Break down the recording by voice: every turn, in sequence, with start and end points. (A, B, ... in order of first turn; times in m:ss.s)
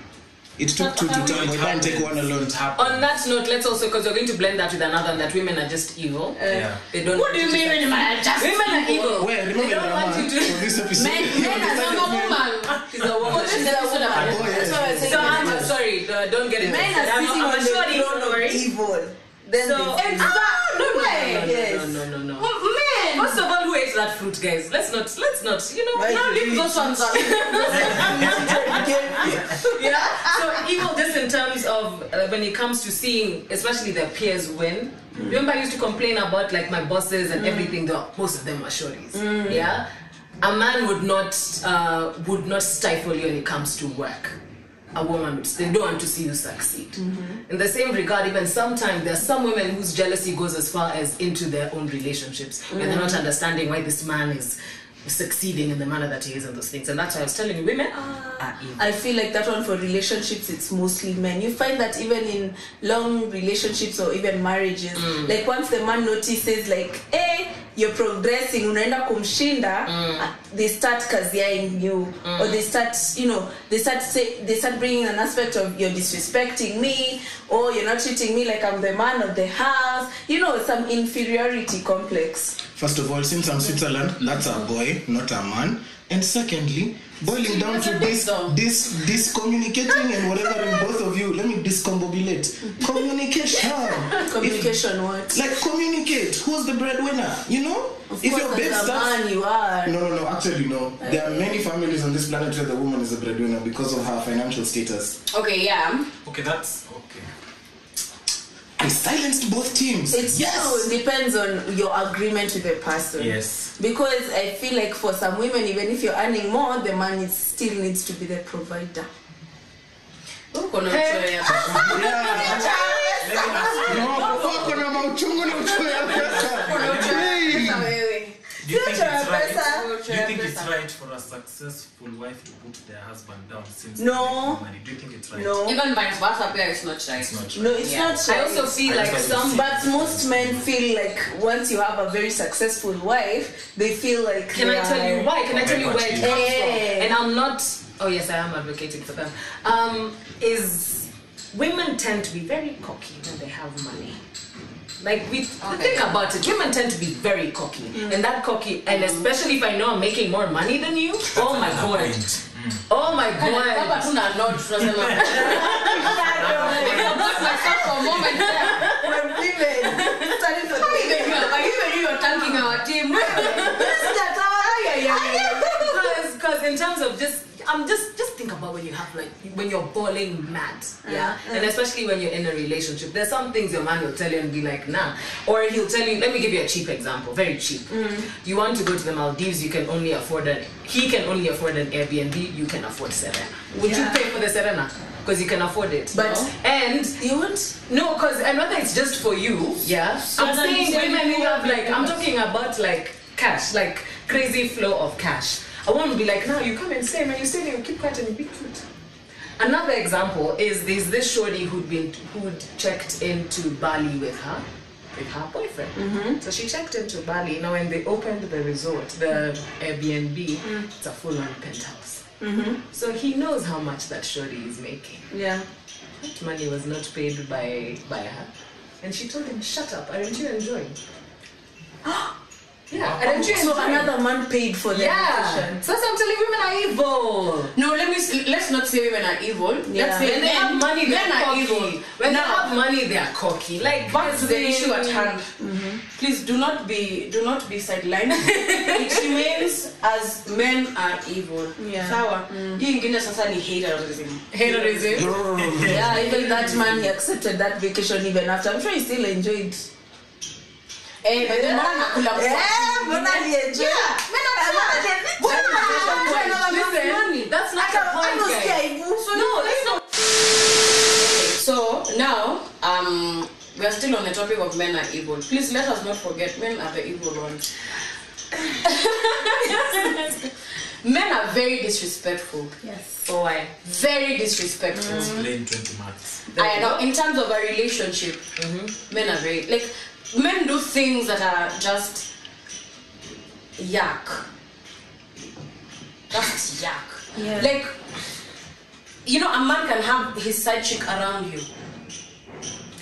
0:00.6-0:02.6 A
0:01.0-0:03.1 B
0:02.8-0:10.8 C
0:06.4-0:06.7 D
0:06.4-0:06.8 B
0:07.1-0:09.3 E
0:09.2-0:12.5 A
0:10.9-0:12.2 D
0:11.0-0:15.6 E
0:12.9-0:15.8 D
0:13.0-0:13.9 C
0:13.2-0:13.5 B
0:14.1-0:15.1 B
0:14.1-0:15.7 A
0:15.0-0:18.6 C
0:16.6-0:22.0 D
0:19.6-0:22.5 C
0:19.9-0:21.5 E
0:22.4-0:23.4 E
0:23.1-0:39.9 C
0:25.9-0:26.8 D
0:26.0-0:28.6 E
0:27.6-0:30.4 D
0:27.7-0:29.5 B
0:37.3-0:37.8 D
0:39.1-0:39.6 D
0:40.4-0:44.3 C
0:44.9-0:58.9 C
0:47.0-0:47.4 D
0:52.7-0:53.2 D
0:58.0-1:22.6 D
1:05.0-1:05.3 C
1:09.8-1:10.3 C
1:12.2-1:12.6 C
1:22.7-1:34.8 A
1:27.3-1:28.6 E
1:34.2-1:35.4 D
1:35.3-1:39.2 A
1:38.1-1:39.9 D
1:39.8-1:45.2 A
1:41.0-1:41.4 D
1:45.3-1:46.1 E
1:46.2-1:47.3 B
1:48.8-1:50.9 A
1:50.1-1:59.1 D
1:53.2-1:53.7 B
2:00.5-2:04.7 E
2:00.9-2:01.8 C
2:01.4-2:04.7 B
2:01.8-2:04.6 D
2:01.8-2:02.7 A
2:03.8-2:07.9 A
2:04.0-2:04.7 C
2:05.4-2:07.9 B
2:05.5-2:08.4 E
2:08.6-2:15.6 B
2:08.6-2:09.9 D
2:09.6-2:10.7 E
2:14.0-2:14.6 D
2:15.3-2:15.8 D
2:15.6-2:18.2 E
2:17.1-2:20.7 B
2:17.5-2:18.8 D
2:18.2-2:19.7 C
2:19.3-2:25.3 D
2:24.5-2:34.2 C
2:25.4-2:26.5 B
2:26.2-2:27.1 D
2:35.0-2:42.2 C
2:35.6-2:36.1 E
2:37.9-2:38.2 D
2:38.9-2:39.2 E
2:41.3-2:42.8 B
2:42.9-2:44.1 C
2:43.4-2:48.9 E
2:44.8-2:46.9 B
2:45.2-2:47.8 D
2:45.4-2:49.2 C
2:48.7-2:52.0 D
2:49.8-2:50.4 C
2:50.7-2:55.3 E
2:53.1-3:17.2 C
2:53.2-2:56.2 D
3:01.0-3:01.7 D
3:07.9-3:08.3 D
3:13.8-3:14.2 D
3:16.1-3:16.5 E
3:17.2-3:17.8 D
3:17.9-3:28.8 C
3:20.3-3:22.2 E
3:29.6-3:42.2 C
3:36.0-3:36.4 D
3:42.4-3:42.8 D
3:42.9-3:45.2 C
3:45.3-3:45.6 D
3:46.2-3:48.5 C
3:49.0-3:51.0 C
3:52.0-3:52.3 D
3:52.9-3:54.1 C
3:52.9-3:53.9 B
3:53.2-3:55.8 D
3:54.9-3:57.7 C
3:57.7-4:02.7 E
3:59.8-4:00.3 D
4:00.2-4:05.4 C
4:03.9-4:04.2 B
4:04.1-4:05.5 E
4:05.6-4:06.0 D
4:06.1-4:15.4 E
4:11.8-4:12.8 D
4:14.5-4:15.3 C
4:15.1-4:16.1 A
4:15.6-4:16.1 B
4:15.8-4:19.8 D
4:16.1-4:17.0 E
4:21.2-4:27.5 E
4:21.3-4:26.8 D
4:25.5-4:29.9 C
4:27.8-4:29.7 D
4:29.2-4:30.0 E
4:31.2-4:37.7 E
4:38.8-4:40.5 E
4:41.0-4:42.8 E
4:42.8-4:43.2 D
4:43.2-4:43.7 C
4:43.8-4:45.4 E
4:45.0-4:46.4 B
4:46.5-4:47.0 C
4:46.5-4:48.4 E
4:48.6-4:48.9 C
4:49.0-4:52.2 E
4:53.8-4:54.5 E
4:56.3-4:57.9 E
4:57.3-4:57.8 D
4:59.2-5:01.7 E